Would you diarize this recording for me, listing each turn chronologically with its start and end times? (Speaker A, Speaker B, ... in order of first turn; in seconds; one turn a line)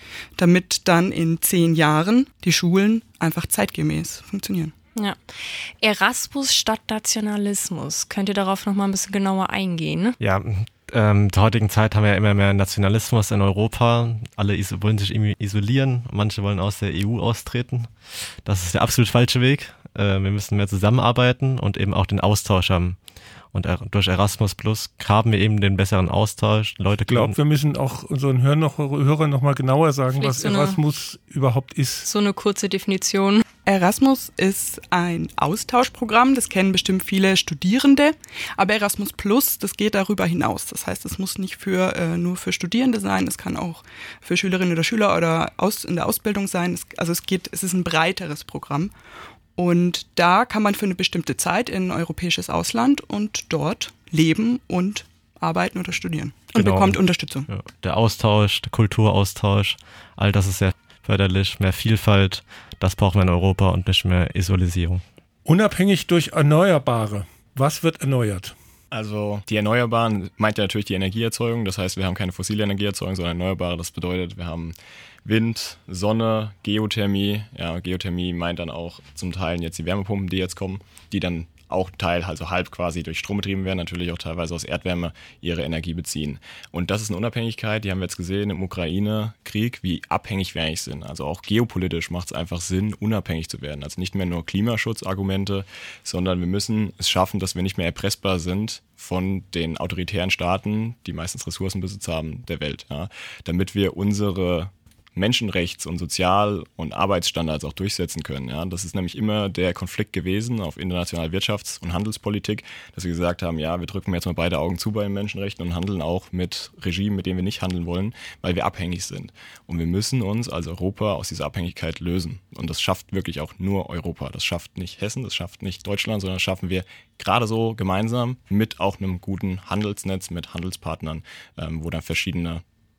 Speaker A: 0.4-4.7
Speaker B: 5.0-10.2
Speaker C: 10.2-23.0
Speaker C: 23.5-27.4
Speaker D: 27.1-32.1
Speaker B: 30.2-30.8
Speaker B: 32.0-33.4
Speaker A: 33.7-48.9
Speaker A: 49.6-57.5
Speaker C: 56.5-65.0
Speaker D: 65.5-68.5
Speaker E: 68.9-74.7
Speaker E: 75.2-132.6